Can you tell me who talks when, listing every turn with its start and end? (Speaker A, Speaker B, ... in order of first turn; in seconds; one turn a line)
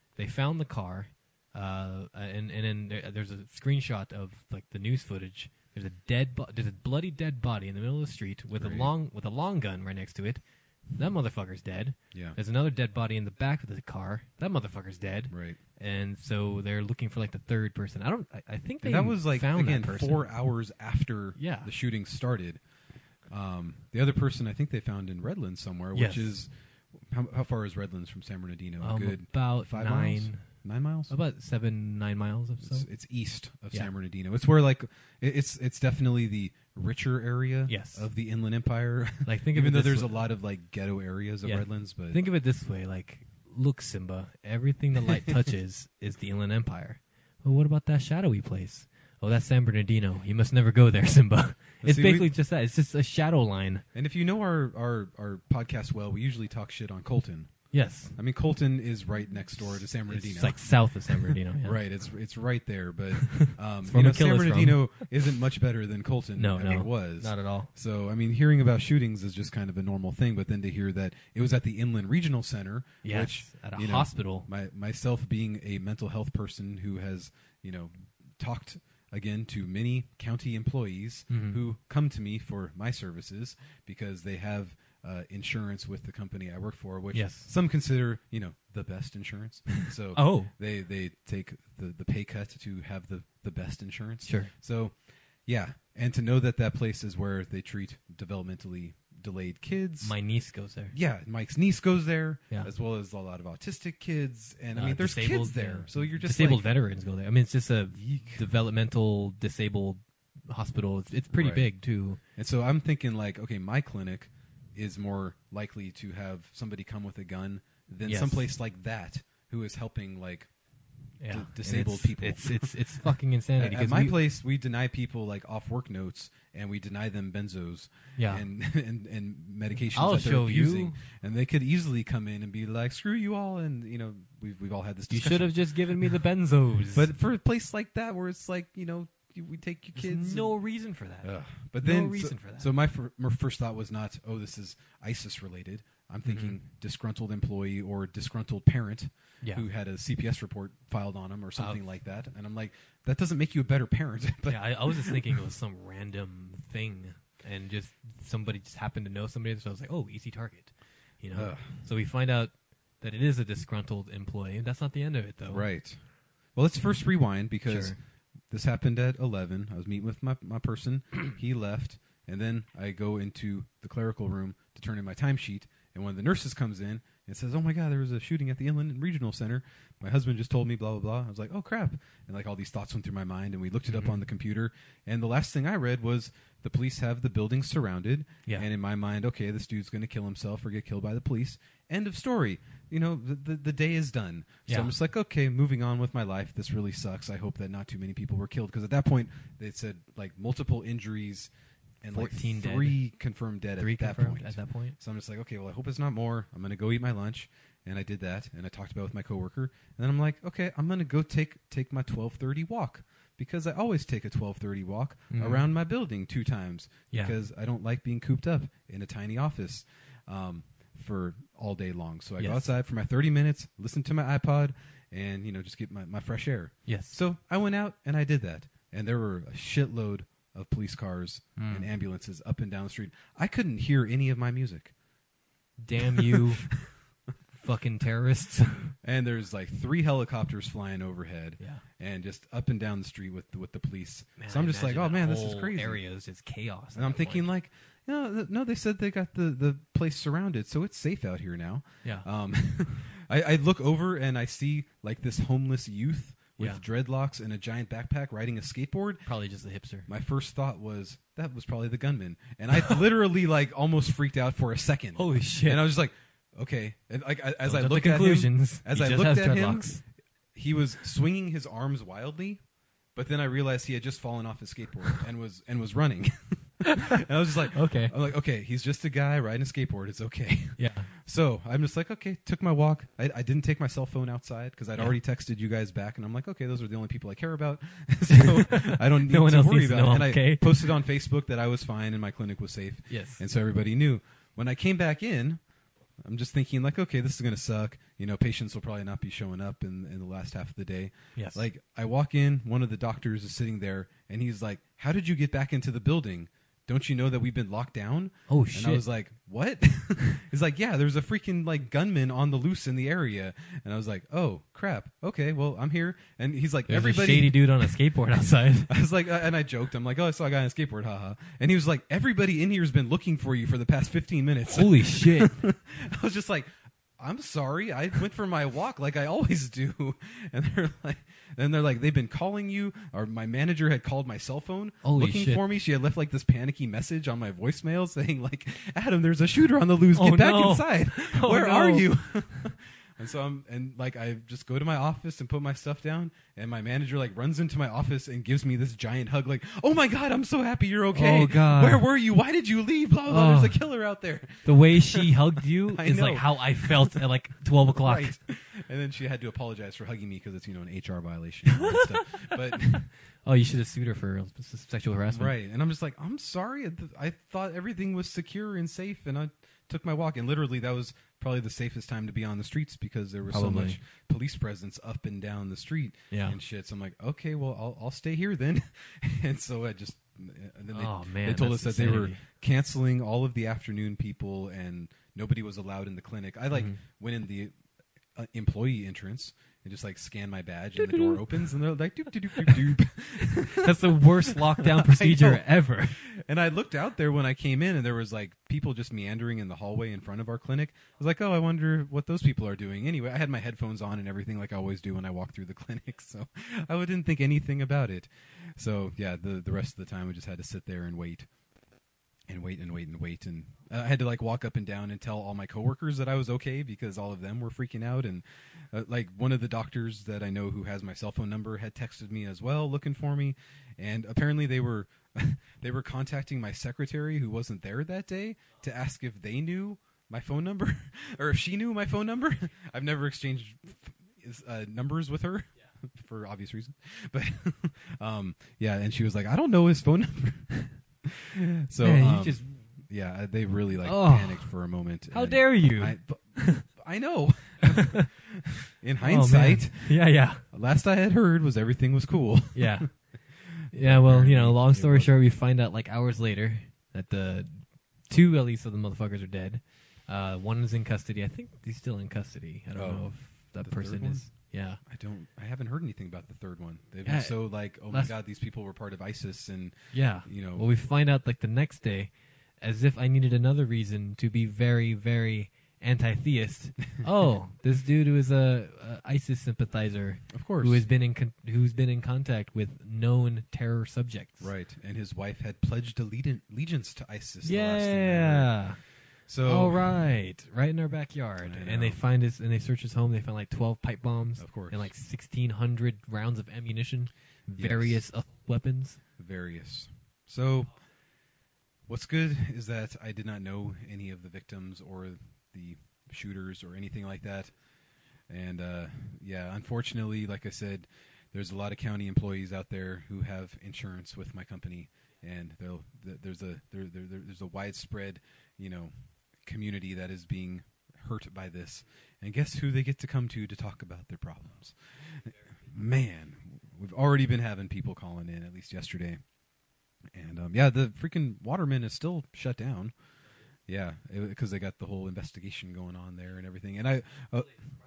Speaker A: 0.2-20.3
Speaker B: 8.5-8.9
Speaker B: 15.3-15.6
Speaker B: 18.8-22.6
Speaker A: 21.4-21.7
Speaker B: 23.3-31.1
Speaker A: 25.9-26.3
Speaker A: 28.8-30.4
Speaker A: 31.1-32.9
Speaker B: 32.6-42.2
Speaker A: 37.7-38.1
Speaker A: 39.2-40.3
Speaker A: 41.4-53.9
Speaker B: 45.1-45.5
Speaker B: 51.8-52.3
Speaker B: 54.0-57.5
Speaker A: 57.7-58.1
Speaker B: 58.2-60.6
Speaker A: 59.6-61.8
Speaker B: 61.2-100.2
Speaker A: 63.2-64.8
Speaker A: 66.4-67.7
Speaker A: 73.0-74.5
Speaker A: 81.3-81.6
Speaker A: 87.1-87.5
Speaker A: 90.1-90.5
Speaker A: 94.2-94.5
Speaker A: 100.0-100.9
Speaker B: 100.9-106.7
Speaker A: 104.8-112.2
Speaker B: 107.9-108.5
Speaker B: 111.3-111.7
Speaker B: 112.4-120.5
Speaker A: 118.1-118.5
Speaker A: 121.2-124.2
Speaker B: 121.3-122.7
Speaker B: 123.6-136.2
Speaker A: 128.2-128.4
Speaker A: 129.9-131.0
Speaker A: 135.1-137.1
Speaker B: 136.9-140.6
Speaker A: 140.0-142.7
Speaker B: 141.2-155.4
Speaker A: 146.2-146.6
Speaker A: 151.6-151.8
Speaker A: 154.5-165.7
Speaker B: 161.3-161.7
Speaker B: 165.5-166.0
Speaker B: 166.6-167.9
Speaker A: 167.7-168.0
Speaker B: 168.5-201.5
Speaker A: 183.9-184.2
Speaker A: 194.7-194.9
Speaker B: 202.0-234.9
Speaker A: 202.1-203.0
Speaker A: 203.8-205.0
Speaker A: 215.3-215.7
Speaker A: 222.4-222.7
Speaker A: 226.9-227.2
Speaker A: 231.6-231.9
Speaker A: 235.8-236.7
Speaker B: 236.3-236.8
Speaker A: 237.6-238.9
Speaker B: 239.0-246.0
Speaker A: 244.4-247.5
Speaker B: 247.0-259.3
Speaker A: 256.6-256.8
Speaker A: 259.3-260.1
Speaker B: 260.1-270.0
Speaker A: 265.2-265.9
Speaker A: 267.6-270.0
Speaker B: 270.6-272.6
Speaker B: 273.1-295.6
Speaker A: 276.9-277.2
Speaker A: 277.7-278.1
Speaker A: 280.8-281.1
Speaker A: 288.3-291.0
Speaker A: 293.1-293.4
Speaker B: 296.2-318.0
Speaker A: 301.4-301.7
Speaker A: 308.5-309.1
Speaker A: 316.9-318.9
Speaker B: 318.9-357.2
Speaker A: 324.6-325.6
Speaker A: 335.0-335.6
Speaker A: 340.1-342.1
Speaker A: 351.1-352.1
Speaker A: 353.3-353.8
Speaker A: 354.6-358.4
Speaker B: 358.0-363.1
Speaker A: 361.7-362.6
Speaker A: 363.4-365.6
Speaker B: 365.3-387.7
Speaker A: 373.5-374.0
Speaker A: 376.3-376.6
Speaker A: 380.9-382.4
Speaker A: 386.7-387.0
Speaker B: 388.4-411.5
Speaker A: 391.0-391.4
Speaker A: 392.6-392.9
Speaker A: 393.5-396.2
Speaker B: 412.5-453.1
Speaker A: 442.0-442.8
Speaker A: 444.0-444.7
Speaker A: 445.3-446.9
Speaker A: 447.8-448.3
Speaker A: 449.2-450.6
Speaker A: 452.8-453.1
Speaker B: 453.9-455.4
Speaker A: 453.9-465.0
Speaker B: 462.9-464.5
Speaker B: 465.1-470.9
Speaker A: 467.2-468.3
Speaker A: 470.1-484.7
Speaker B: 480.5-481.0
Speaker B: 484.6-488.8
Speaker A: 487.6-489.0
Speaker B: 489.5-490.2
Speaker A: 489.6-499.2
Speaker B: 491.6-492.2
Speaker B: 494.6-495.1
Speaker B: 497.8-498.2
Speaker B: 499.4-500.9
Speaker B: 502.1-507.7
Speaker B: 508.5-519.1
Speaker B: 519.6-529.4
Speaker B: 530.3-533.1
Speaker B: 533.9-537.8